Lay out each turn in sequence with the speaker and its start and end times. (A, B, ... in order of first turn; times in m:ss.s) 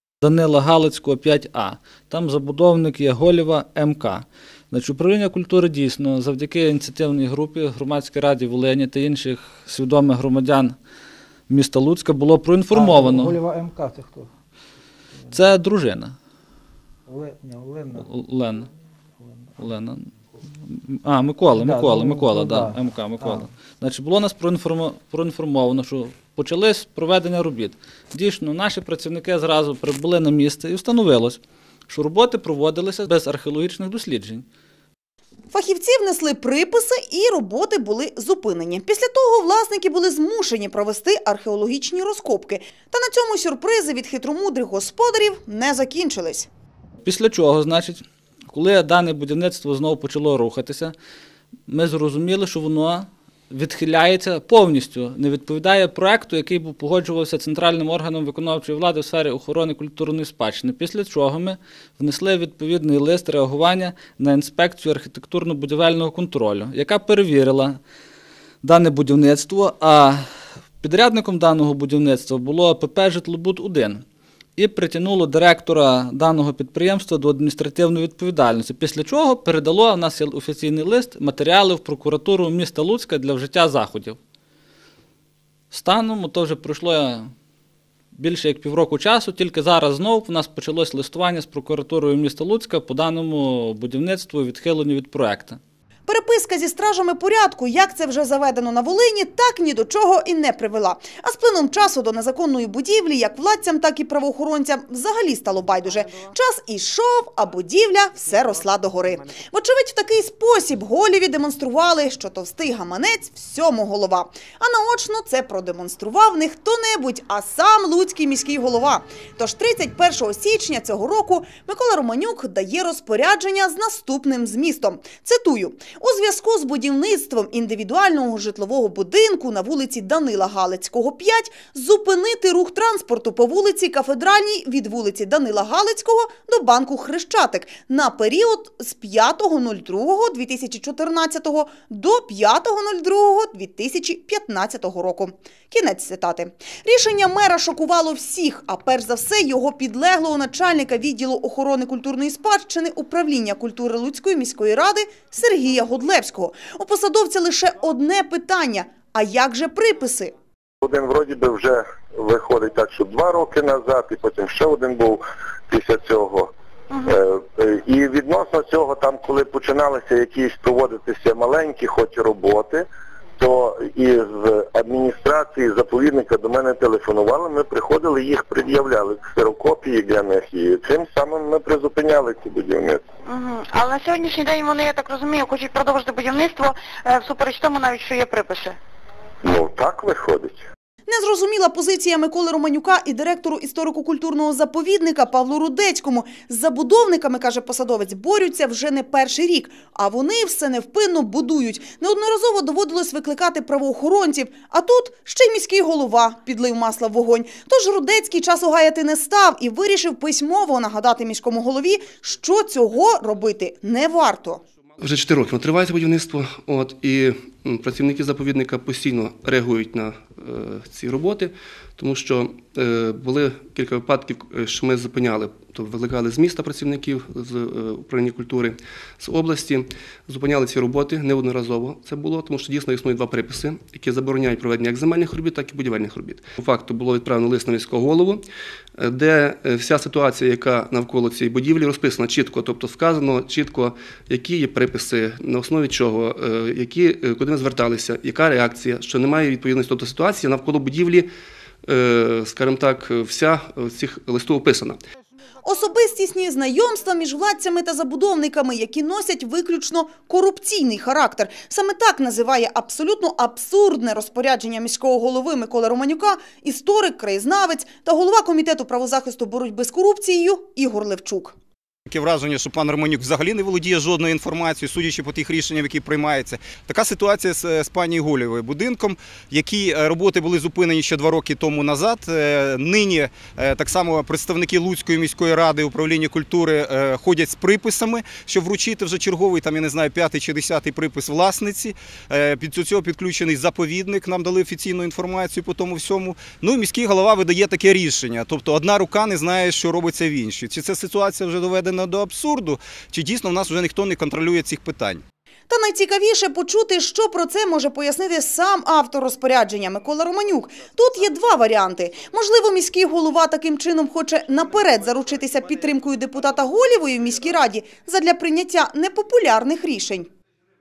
0:00.2-0:10.8 A
0:11.5-0:13.4 A
0:12.7-0:14.3 B
0:15.3-0:16.1 A
0:17.1-0:18.1 B
0:18.0-0:18.7 A
0:19.2-0:19.5 B
0:19.6-0:34.4 A
0:21.5-0:23.4 B
0:35.5-0:46.5 C
0:47.0-0:50.9 A
0:51.7-1:07.8 A
1:08.6-1:10.2 A
1:10.8-1:14.0 A
1:14.6-1:24.2 A
1:25.7-1:27.3 A
1:28.2-1:35.6 A
1:36.1-2:40.3 C
2:40.8-2:46.5 D
2:47.0-2:52.8 D
2:53.4-3:03.0 D
3:03.3-3:08.8 E
3:09.4-3:10.6 D
3:11.1-3:34.6 C
3:35.0-3:58.4 F
3:59.0-4:11.3 F
4:11.9-4:15.0 F
4:15.6-4:31.5 C
4:32.1-5:05.2 G
5:05.7-5:20.3 C